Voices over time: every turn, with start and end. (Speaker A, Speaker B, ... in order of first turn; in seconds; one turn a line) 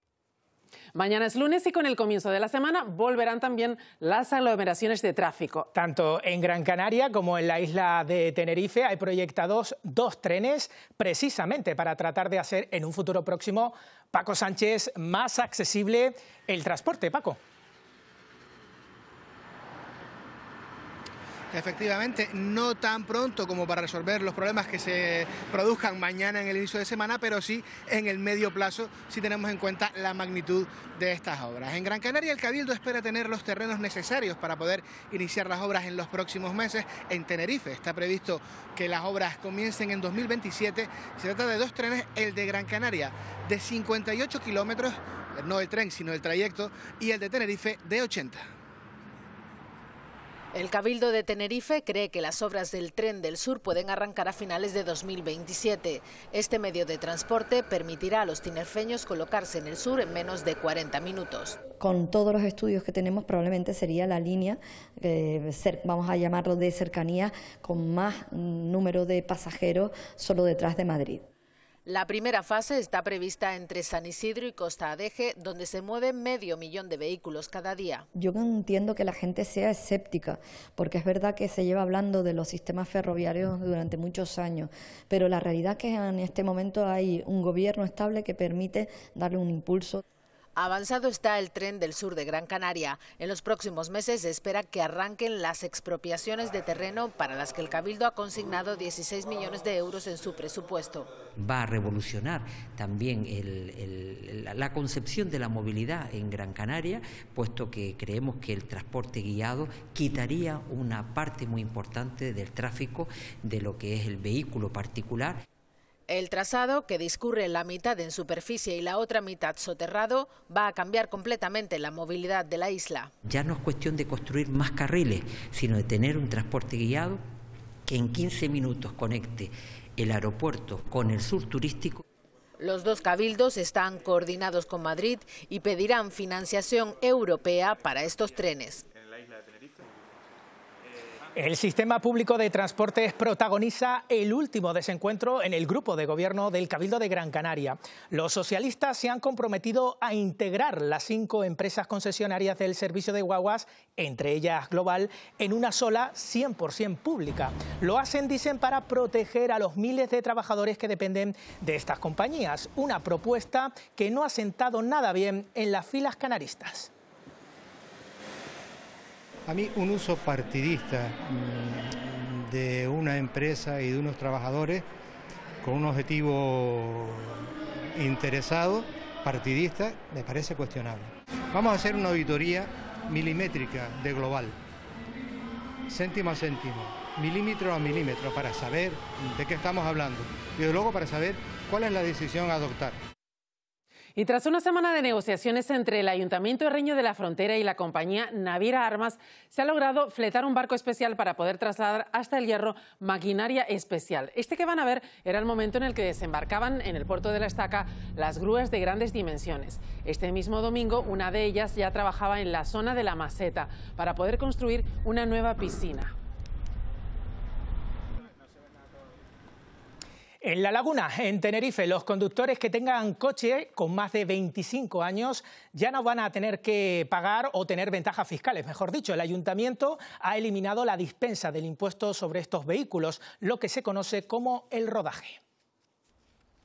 Speaker A: 0.9-5.7
Speaker B: 5.7-17.4
Speaker C: 21.5-48.5
Speaker D: 50.5-61.6
Speaker E: 61.8-71.2
Speaker D: 71.8-78.1
Speaker E: 78.1-90.0
Speaker D: 90.5-101.1
Speaker F: 101.3-115.4
Speaker D: 116.1-123.1
Speaker F: 123.2-127.2
Speaker F: 127.8-132.0
Speaker D: 132.6-138.8
Speaker B: 141.3-166.9
Speaker G: 169.5-174.8
Speaker G: 175.6-177.1
Speaker G: 178.0-181.1
Speaker G: 181.6-184.5
Speaker G: 185.9-192.9
Speaker A: 194.2-216.1
Speaker B: 220.4-235.4